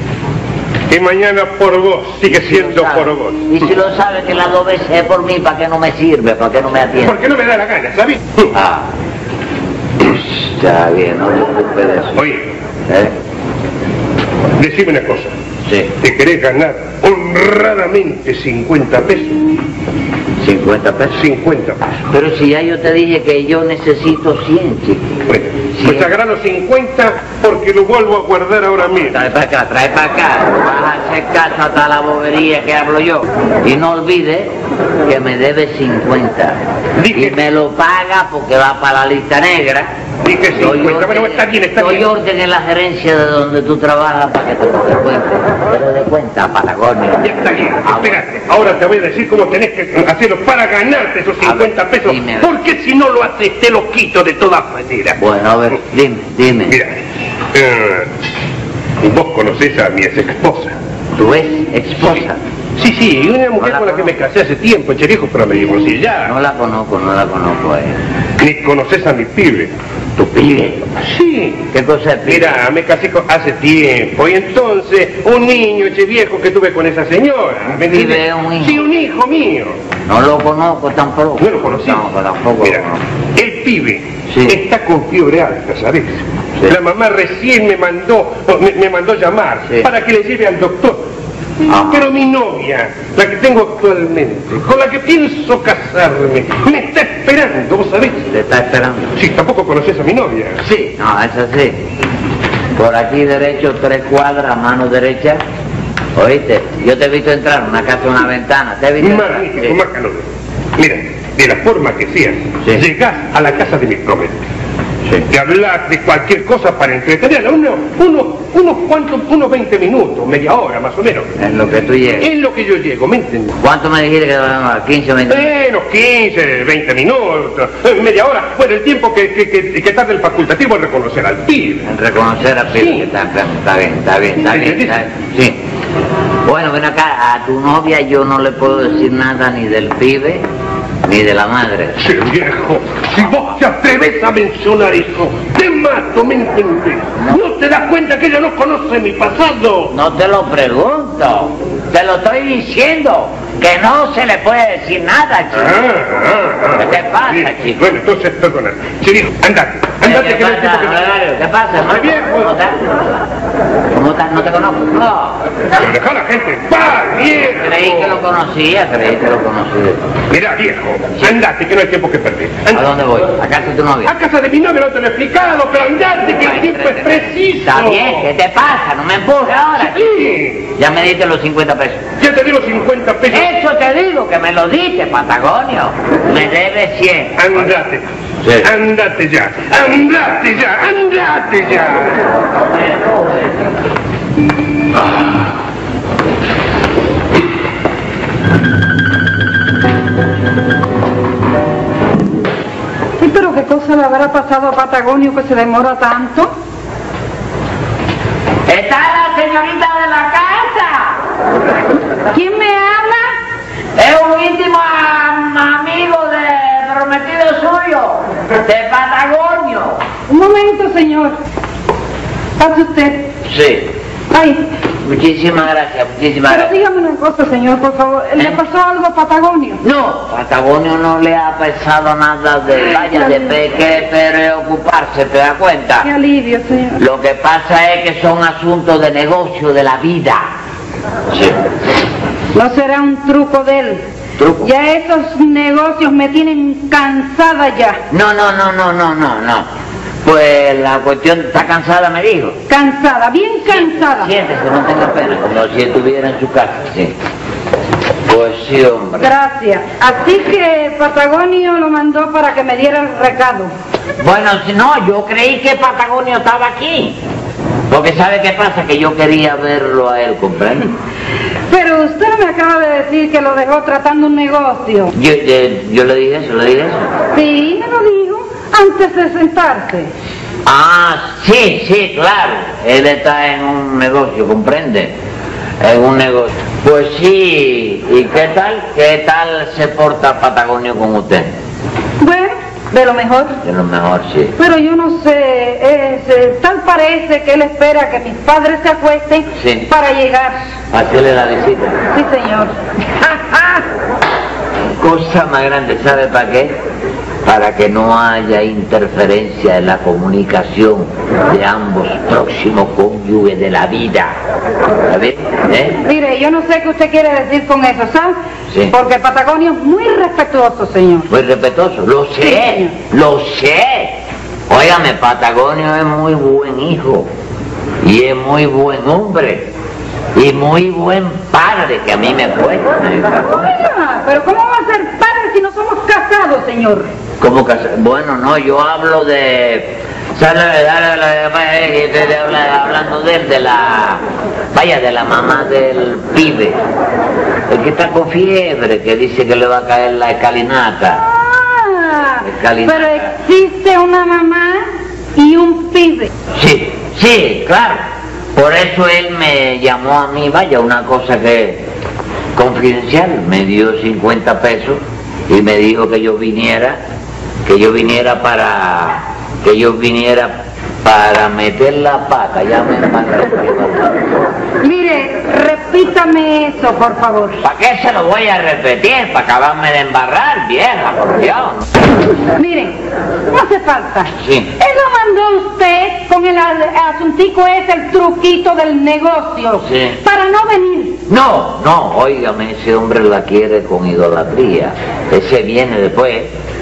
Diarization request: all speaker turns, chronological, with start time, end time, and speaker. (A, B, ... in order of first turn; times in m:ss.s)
0:00.9-0:03.5 A
0:02.2-0:07.2 B
0:07.0-0:08.5 A
0:08.5-0:08.9 B
0:10.0-0:12.3 B
0:12.2-0:12.5 A
0:12.9-0:13.1 B
0:14.6-0:15.3 A
0:15.6-0:15.9 B
0:16.0-0:19.4 A
0:20.4-0:21.2 B
0:21.1-0:21.8 A
0:22.1-0:26.1 B
0:25.3-0:29.2 A
0:29.1-0:39.9 B
0:37.0-0:37.4 A
0:40.2-0:42.1 A
0:40.5-0:48.2 B
0:47.2-0:55.2 A
0:51.4-0:52.6 B
0:55.2-0:56.8 B
0:56.7-0:57.0 A
0:57.5-0:58.1 A
0:59.0-1:00.8 A
1:01.2-1:02.4 B
1:02.8-1:06.3 A
1:03.6-1:04.1 B
1:06.2-1:08.0 B
1:08.4-1:09.7 A
1:10.2-1:10.9 B
1:11.0-1:11.6 A
1:11.7-1:12.6 B
1:12.2-1:19.8 A
1:17.8-1:18.9 B
1:20.1-1:23.0 B
1:21.4-1:22.0 A
1:22.6-1:31.1 A
1:24.3-1:24.6 B
1:31.7-1:32.0 B
1:31.7-1:38.3 A
1:38.3-1:39.2 B
1:39.2-1:40.6 A
1:40.6-1:41.8 B
1:42.8-1:45.4 B
1:46.2-1:49.8 B
1:49.0-1:50.2 A
1:50.8-1:54.4 A
1:55.3-2:01.3 A
2:01.4-2:02.3 B
2:02.2-2:03.5 A
2:03.6-2:05.5 B
2:05.3-2:11.9 A
2:11.8-2:15.6 B
2:12.7-2:13.1 A
2:14.5-2:14.9 A
2:16.4-2:20.4 B
2:21.0-2:22.0 B
2:22.0-2:29.9 A
2:29.9-2:35.8 B
2:35.6-2:41.0 A
2:36.8-2:37.8 B
2:40.0-2:43.0 B
2:41.9-2:42.5 A
2:43.9-2:45.4 B
2:45.8-2:48.2 A
2:47.4-2:50.0 B
2:50.3-2:52.9 A
2:52.7-2:54.1 B
2:54.0-2:58.3 A
2:56.4-3:02.0 B
2:59.8-3:00.7 A
3:02.2-3:03.5 A
3:03.3-3:07.7 B
3:07.4-3:08.0 A
3:08.4-3:08.7 B
3:08.6-3:12.3 A
3:12.5-3:13.8 B
3:23.2-3:26.5 C
3:28.7-3:31.2 B
3:32.3-3:33.3 C
3:34.0-3:40.0 B
3:40.3-3:41.4 C
3:42.6-3:43.3 C
3:43.4-3:43.9 B
3:44.3-3:44.6 C
3:45.0-3:46.7 B
3:46.5-3:49.8 C
3:49.8-3:56.1 B
3:52.9-3:53.5 C
3:56.0-3:57.0 C
3:57.0-4:00.4 B
4:01.3-4:01.6 B
4:02.5-4:04.0 C
4:04.4-4:04.7 B
4:04.6-4:08.0 C
4:08.1-4:09.7 B
4:10.2-4:12.6 B
4:12.7-4:14.3 C
4:13.7-4:17.1 B
4:18.2-4:19.3 B
4:19.2-4:23.7 C
4:24.2-4:27.2 B
4:27.9-4:30.9 B
4:31.7-4:35.1 C
4:35.1-4:37.1 B
4:37.3-4:40.1 C
4:40.6-4:45.2 B
4:45.8-4:51.5 B
4:52.2-4:53.6 C
4:53.6-4:54.6 B
4:54.6-5:00.7 C
4:59.5-4:59.9 B
5:00.9-5:02.0 B
5:02.1-5:02.7 C
5:05.0-5:06.8 B
5:07.4-5:14.3 B
5:15.1-5:16.0 B
5:16.0-5:18.4 C
5:18.9-5:21.3 C
5:21.3-5:27.3 B
5:22.4-5:22.9 C
5:28.0-5:29.7 B
5:30.3-5:33.7 B
5:33.5-5:37.1 C
5:37.4-5:46.8 B
5:47.7-5:51.2 B
5:51.2-5:56.3 C
5:52.4-5:53.3 B
5:56.5-5:58.0 B
5:58.5-6:01.9 B
6:02.5-6:07.0 B
6:07.6-6:14.5 B
6:14.8-6:17.6 C
6:17.6-6:21.8 B
6:22.6-6:31.2 C
6:24.4-6:24.7 B
6:29.8-6:30.2 B
6:31.3-6:36.5 B